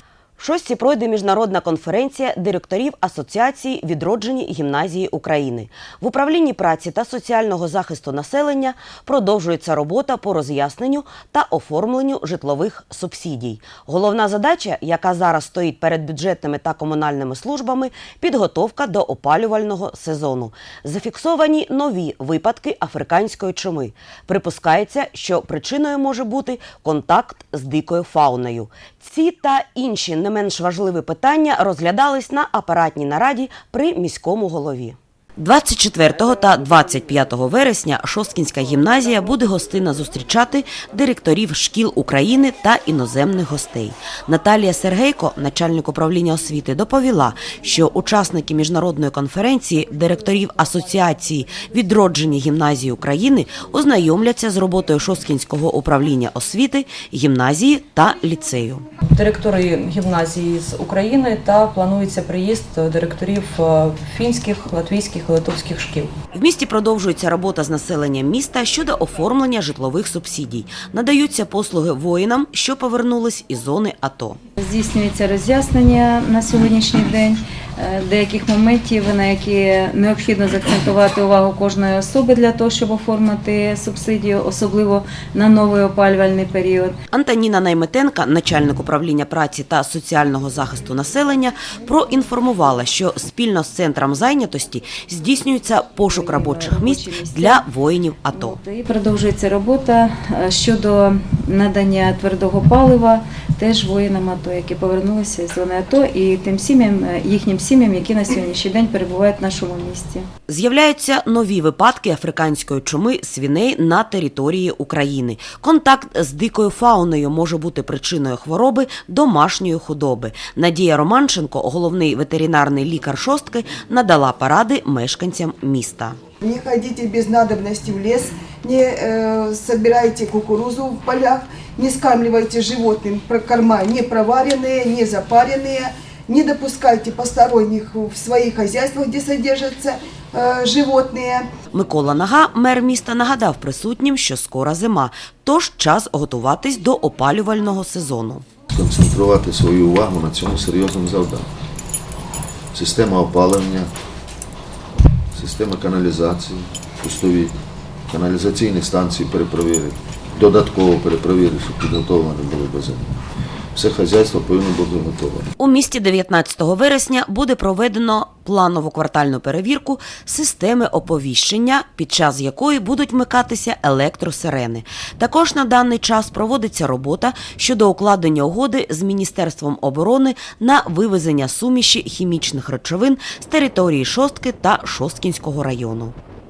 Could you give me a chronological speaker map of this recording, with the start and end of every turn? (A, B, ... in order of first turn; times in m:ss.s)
0:00.4-0:58.8 A
0:59.1-1:06.1 B
1:06.3-1:14.4 A
1:14.6-1:27.0 C
1:27.1-1:38.6 A
1:36.0-1:37.6 C
1:38.3-1:50.3 C
1:50.5-2:06.2 A
2:06.4-2:21.4 D
2:21.7-2:28.5 A
2:28.7-2:31.5 E
2:32.7-2:33.9 E
2:35.3-2:37.6 E
2:38.1-2:43.1 E
2:43.8-2:45.5 E
2:45.6-3:06.2 A